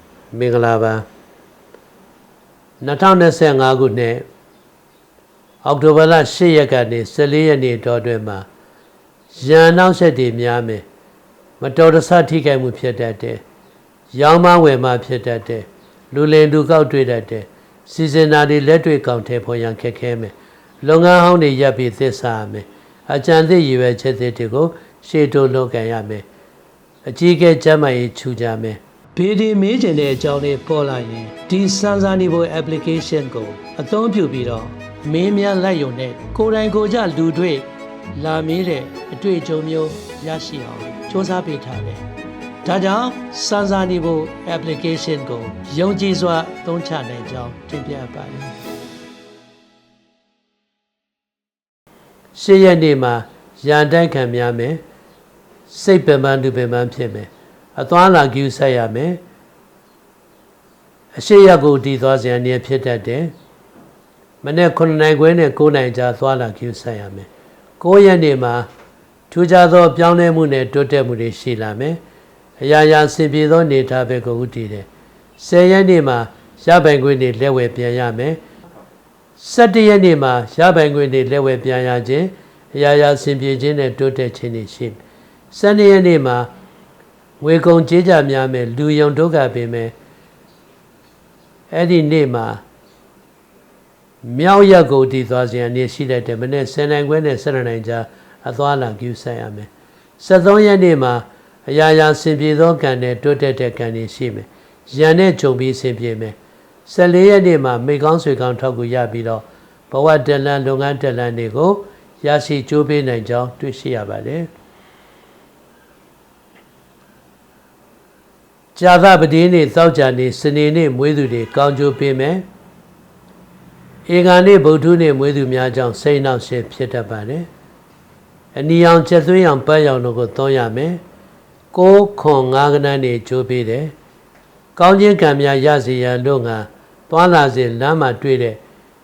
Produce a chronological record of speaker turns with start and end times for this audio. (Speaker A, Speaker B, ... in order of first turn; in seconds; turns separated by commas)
Speaker A: 0.3-1.0, Speaker A: 2.8-4.2, Speaker A: 5.6-8.5, Speaker A: 9.3-10.8, Speaker A: 11.6-13.4, Speaker A: 14.1-26.2, Speaker A: 27.1-42.1, Speaker A: 42.6-48.5, Speaker A: 52.3-54.8, Speaker A: 55.7-59.2, Speaker A: 61.1-63.3, Speaker A: 64.4-67.3, Speaker A: 67.8-68.7, Speaker A: 69.3-72.0, Speaker A: 72.6-74.9, Speaker A: 75.4-78.4, Speaker A: 79.4-86.5, Speaker A: 87.4-89.9, Speaker A: 91.7-92.6, Speaker A: 94.2-114.5, Speaker A: 118.8-122.4, Speaker A: 124.1-127.5, Speaker A: 128.5-131.0, Speaker A: 131.7-133.9, Speaker A: 134.8-138.6